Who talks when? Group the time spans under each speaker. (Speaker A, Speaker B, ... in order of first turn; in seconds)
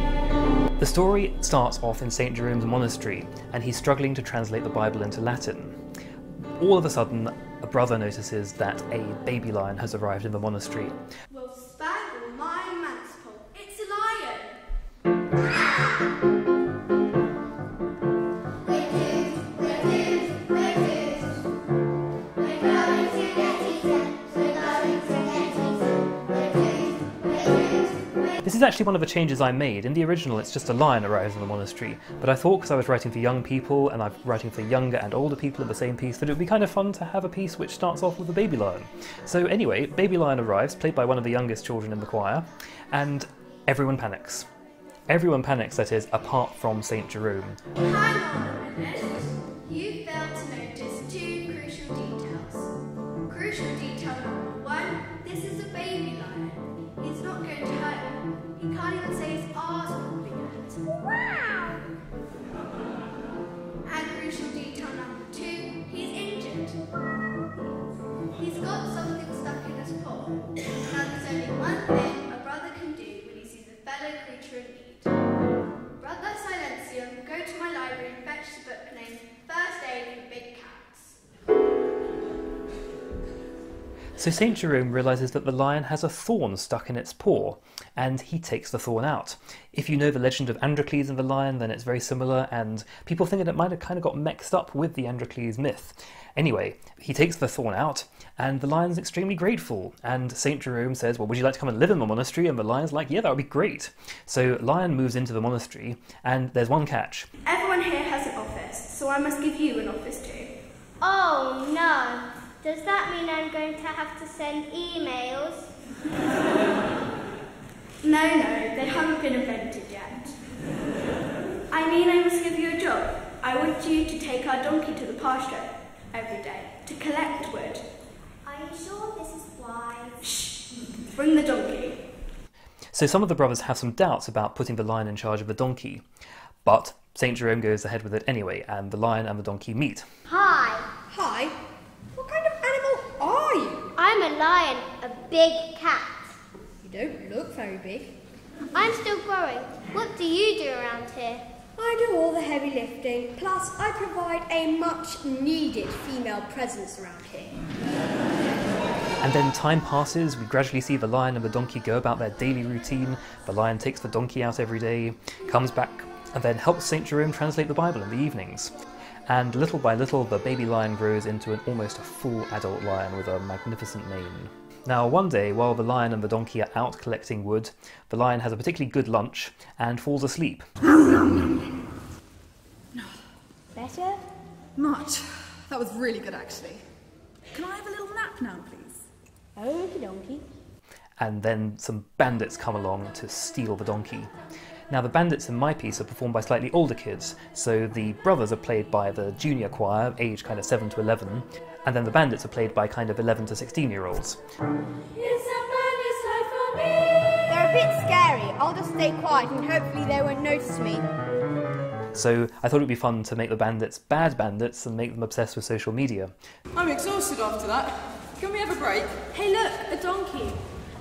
Speaker A: 0.8-5.8, 6.6-11.0, 28.4-44.5, 45.1-47.6, 84.2-107.3, 132.9-136.1, 136.7-140.1, 159.2-168.8, 169.3-180.7, 191.2-194.3, 194.9-204.4, 212.1-216.3
Speaker B: 11.3-14.6, 18.7-21.4, 22.4-25.8, 26.3-28.1, 47.8-52.7, 53.3-61.8, 63.9-66.8, 68.3-75.2, 76.0-81.2, 107.5-110.5, 118.0-120.4, 121.7-127.8, 130.2-132.0, 219.6-220.4
Speaker C: 111.0-115.7, 128.4-130.2, 140.3-140.9, 144.0-146.3, 148.7-151.4
Speaker D: 141.1-141.5, 142.2-143.9, 146.8-148.1, 151.8-157.6, 183.8-184.2, 189.6-190.4, 205.4-206.4, 207.5-211.1
Speaker E: 184.8-186.8, 187.5-189.1, 216.7-219.2